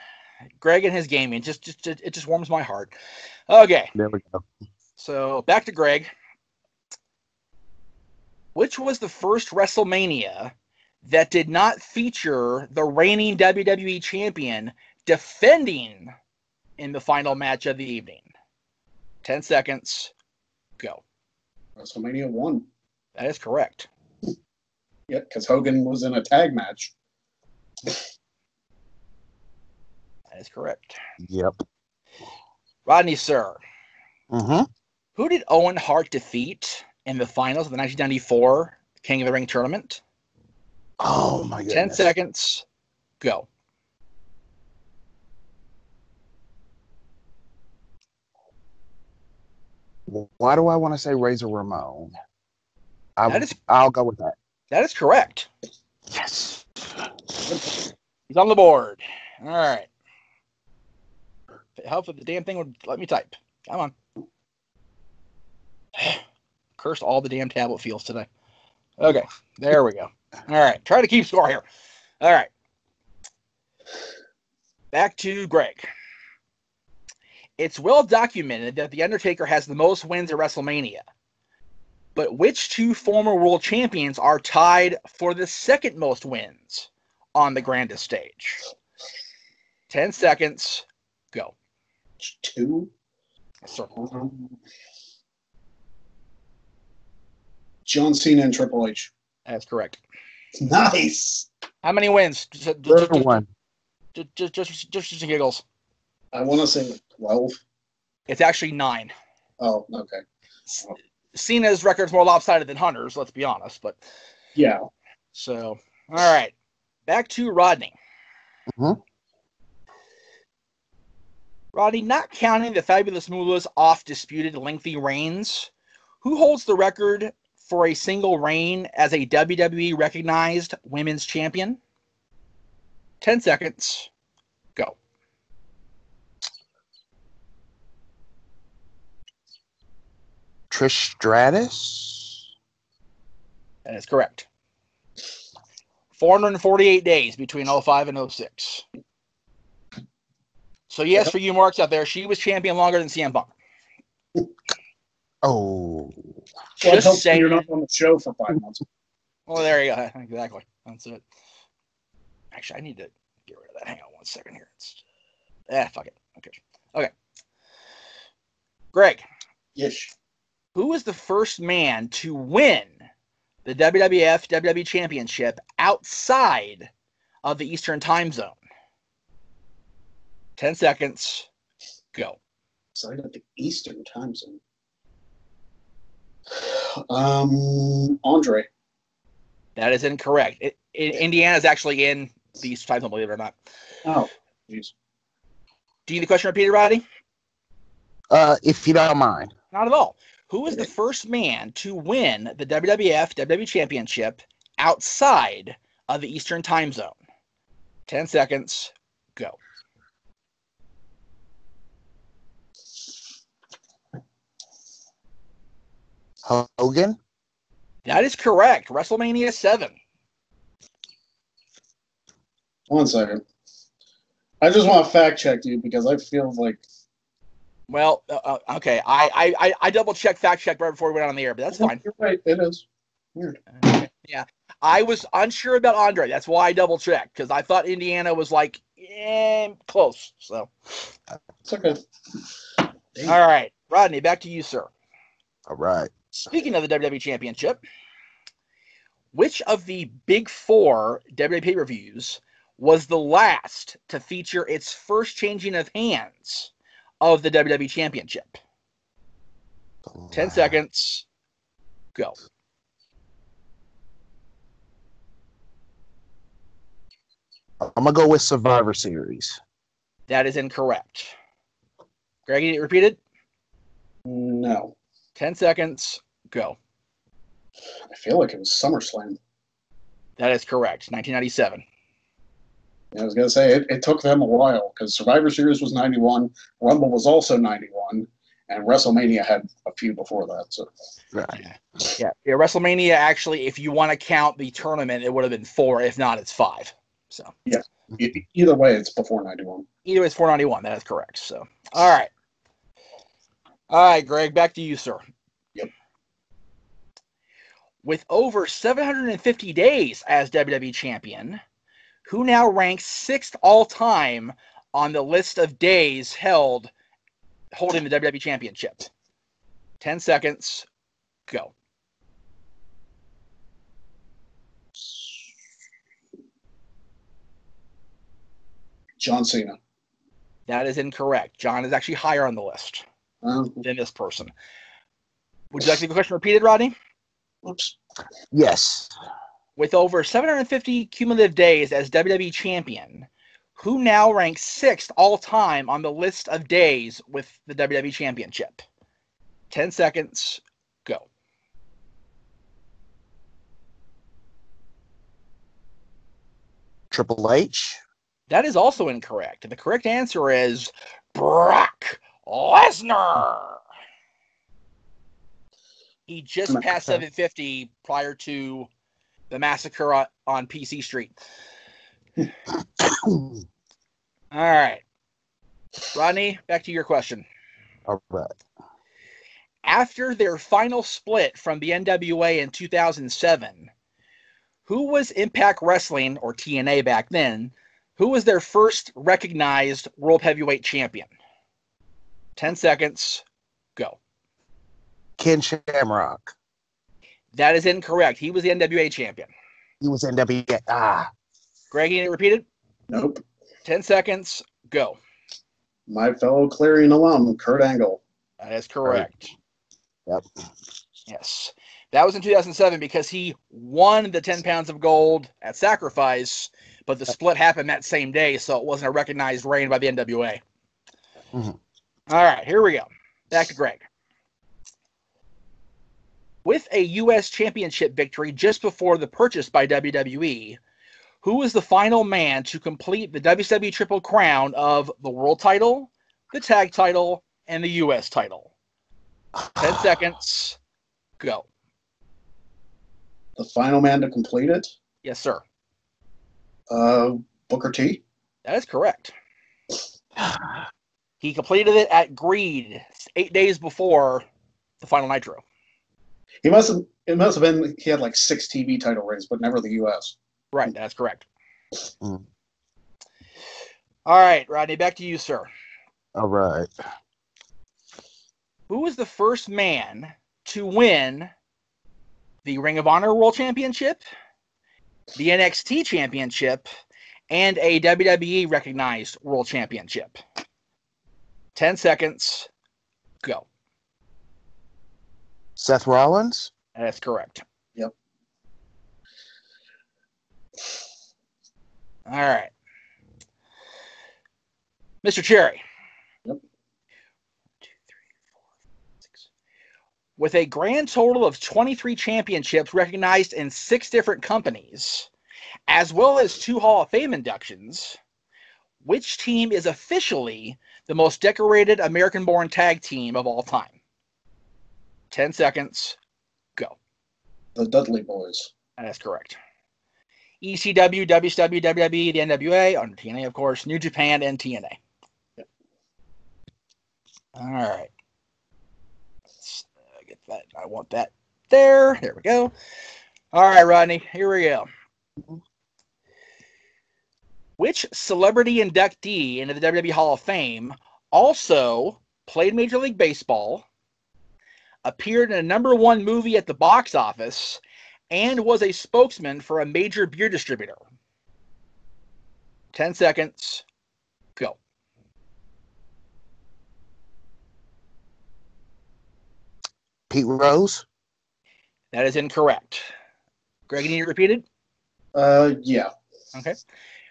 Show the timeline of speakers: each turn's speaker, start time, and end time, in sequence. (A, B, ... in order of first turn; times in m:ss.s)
0:00.6-0:02.9 A
0:03.5-0:03.9 A
0:04.0-0:04.4 B
0:05.0-0:06.1 A
0:08.6-0:10.5 A
0:11.0-0:16.1 A
0:16.8-0:18.3 A
0:19.2-0:20.1 A
0:21.8-0:22.6 C
0:23.2-0:23.9 A
0:25.1-0:26.9 C
0:30.3-0:31.0 A
0:31.2-0:31.6 B
0:32.9-0:33.6 A
0:34.3-0:34.7 B
0:35.2-0:40.0 A
0:41.0-0:42.1 B
0:41.7-0:42.6 A
0:43.2-0:43.5 A
0:50.1-0:52.1 B
0:53.2-0:54.4 B
0:53.3-0:53.6 A
0:54.7-0:55.5 A
0:56.1-0:56.6 B
0:58.3-0:59.9 A
1:01.8-1:03.9 A
1:06.8-1:08.3 A
1:09.0-1:11.6 A
1:12.2-1:12.5 A
1:14.9-1:15.9 A
1:17.6-1:21.0 A
1:22.2-1:28.6 A
1:29.9-1:31.5 A
1:32.2-1:32.9 C
1:33.7-1:33.9 A
1:33.9-1:34.5 C
1:37.9-1:39.1 C
1:39.5-1:40.0 A
1:40.6-1:41.5 C
1:41.8-1:43.3 A
1:42.9-1:43.5 B
1:44.2-1:45.6 A
1:46.3-1:47.6 C
1:48.3-1:49.1 A
1:49.6-1:50.2 C
1:51.3-1:54.0 A
1:54.6-1:54.8 C
1:55.3-1:56.5 A
1:57.1-1:57.9 A
1:58.7-1:59.0 B
2:01.7-2:05.7 A
2:06.2-2:11.8 A
2:13.2-2:14.1 A
2:20.7-2:22.4 B
2:23.9-2:24.5 A
2:26.2-2:28.8 A
2:30.9-2:33.5 A
2:35.4-2:36.3 B
2:36.8-2:37.7 A
2:36.8-2:38.8 C
2:39.5-2:41.2 A
2:42.5-2:45.0 A
2:45.7-2:47.1 A
2:48.9-2:49.2 A
2:49.8-2:50.1 C
2:50.8-2:53.0 A
2:53.6-2:56.9 A
2:57.4-2:58.6 A
3:00.6-3:01.5 A
3:03.0-3:04.6 C
3:06.5-3:08.7 C
3:09.8-3:13.6 A
3:14.0-3:14.9 C
3:16.1-3:17.0 A
3:18.3-3:19.5 B
3:19.7-3:27.2 A
3:28.1-3:29.6 A
3:36.4-3:37.2 B
3:38.1-3:40.0 A
3:42.9-3:43.4 C
3:44.6-3:46.8 C
3:47.9-3:52.0 A
3:51.8-3:53.6 C
3:53.7-4:00.7 A
4:01.7-4:02.0 C
4:03.3-4:04.9 A
4:05.7-4:06.1 B
4:06.5-4:07.8 A
4:09.3-4:18.6 A
4:20.1-4:20.8 B
4:20.3-4:21.2 A
4:27.8-4:29.6 B
4:30.3-4:31.3 A
4:32.5-4:33.2 A
4:34.3-4:35.0 C
4:35.4-4:36.8 A
4:38.1-4:39.4 C
4:40.4-4:41.8 A
4:43.1-4:50.9 C
4:51.3-4:51.6 B
4:51.5-4:57.5 A
4:57.7-4:59.9 C
5:00.0-5:02.3 A
5:03.9-5:05.2 A
5:08.0-5:11.6 A
5:12.2-5:16.9 A
5:17.7-5:19.1 A
5:20.0-5:20.9 A
5:29.2-5:29.8 C
5:30.7-5:33.0 A
5:33.4-5:33.8 C
5:33.8-5:34.5 A
5:35.7-5:36.9 A
5:37.6-5:38.0 C
5:38.5-5:39.1 B
5:39.8-5:48.8 A
5:49.7-5:51.3 A
5:57.1-5:58.0 B
5:58.5-6:03.8 A
6:06.3-6:08.9 A
6:09.5-6:11.4 A
6:13.0-6:13.6 B
6:14.5-6:15.0 A
6:16.1-6:17.4 A
6:18.1-6:18.5 B
6:19.8-6:23.9 A
6:24.9-6:31.3 A
6:32.6-6:33.4 A
6:35.4-6:36.5 B
6:37.5-6:39.5 A
6:40.0-6:41.3 B
6:41.9-6:42.6 A
6:43.1-6:43.4 C
6:43.8-6:45.2 A
6:46.1-6:48.2 C
6:48.6-6:49.5 A
6:51.3-7:00.6 A
7:02.3-7:04.0 A
7:06.6-7:10.8 A
7:11.4-7:18.7 A
7:19.6-7:20.0 B
7:19.8-7:20.8 A
7:21.4-7:21.7 A
7:23.6-7:24.9 C
7:25.2-7:25.6 A
7:26.9-7:28.2 C
7:28.6-7:29.3 A
7:31.4-7:34.5 A
7:35.0-7:35.6 A
7:36.6-7:40.4 C
7:40.7-7:41.4 A
7:44.3-7:45.7 A
7:46.4-7:46.9 B
7:48.9-7:51.5 A
7:52.6-7:54.2 A
7:55.4-7:56.8 A
7:57.5-8:00.4 A
8:01.8-8:02.7 A
8:05.8-8:06.7 B
8:07.0-8:07.6 A
8:12.3-8:12.7 A
8:15.2-8:15.8 A
8:20.4-8:25.3 A
8:25.9-8:28.2 A
8:29.0-8:33.9 A
8:35.3-8:36.2 A
8:37.8-8:38.7 C
8:39.0-8:39.6 A
8:40.6-8:45.0 A
8:47.6-8:48.1 A
8:49.6-8:52.7 A
8:53.5-8:54.9 A
8:57.8-9:03.9 A
9:05.0-9:11.0 A
9:12.9-9:13.8 A
9:20.3-9:21.0 B
9:22.1-9:23.1 A
9:23.9-9:24.6 A
9:25.4-9:26.1 C